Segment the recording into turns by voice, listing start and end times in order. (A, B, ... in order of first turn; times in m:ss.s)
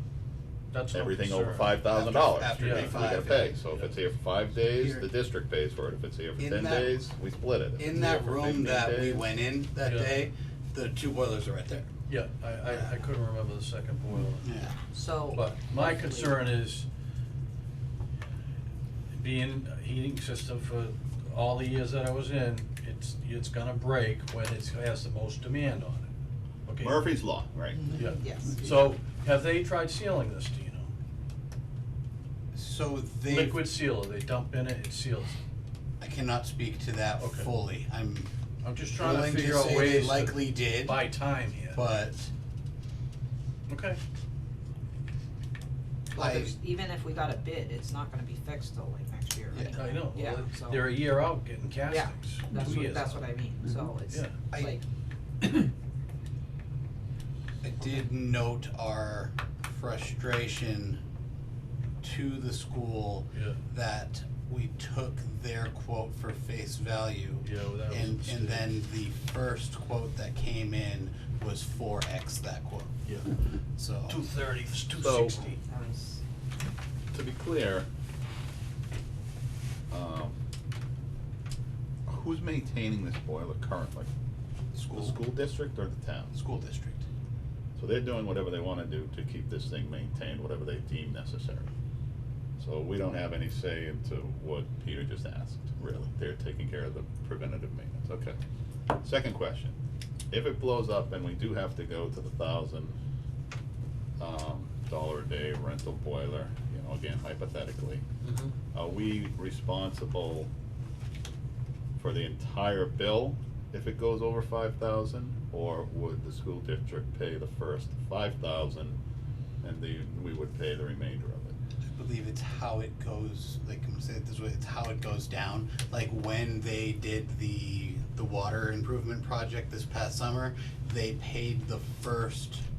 0:00.7-0:01.8 A
0:00.9-0:09.2 B
0:01.8-0:03.6 C
0:02.6-0:03.1 A
0:04.7-0:05.1 C
0:06.4-0:07.0 C
0:07.8-0:11.9 C
0:09.8-0:10.1 A
0:12.1-0:14.5 A
0:12.7-0:13.1 C
0:14.4-0:14.8 C
0:14.7-0:16.4 D
0:15.3-0:16.8 A
0:19.1-0:26.1 A
0:26.6-0:27.1 A
0:26.8-0:27.8 B
0:27.7-0:28.7 D
0:27.9-0:30.9 A
0:32.5-0:33.6 C
0:33.3-0:35.4 A
0:36.0-0:38.3 C
0:37.2-0:37.5 A
0:38.6-0:41.8 A
0:38.9-0:41.1 C
0:41.7-0:42.3 C
0:43.7-0:44.0 A
0:46.1-0:50.9 D
0:46.1-0:46.6 C
0:49.5-0:49.8 C
0:49.7-0:53.2 A
0:51.9-0:54.8 D
0:54.1-0:54.5 A
0:54.5-0:54.8 C
0:57.6-1:01.0 C
1:02.0-1:13.0 C
1:03.3-1:03.6 A
1:07.4-1:08.7 A
1:13.8-1:14.2 C
1:14.1-1:15.6 A
1:15.0-1:15.4 B
1:15.6-1:16.2 D
1:17.1-1:17.9 B
1:19.9-1:20.4 B
1:22.0-1:24.1 B
1:24.7-1:25.2 C
1:24.9-1:26.3 B
1:26.3-1:27.0 C
1:27.8-1:31.7 B
1:32.6-1:38.4 B
1:38.9-1:39.7 B
1:40.3-1:43.0 B
1:44.2-1:48.0 B
1:48.2-1:48.5 D
1:48.7-1:50.5 B
1:52.0-1:59.0 B
1:59.6-2:01.5 B
2:01.9-2:12.6 C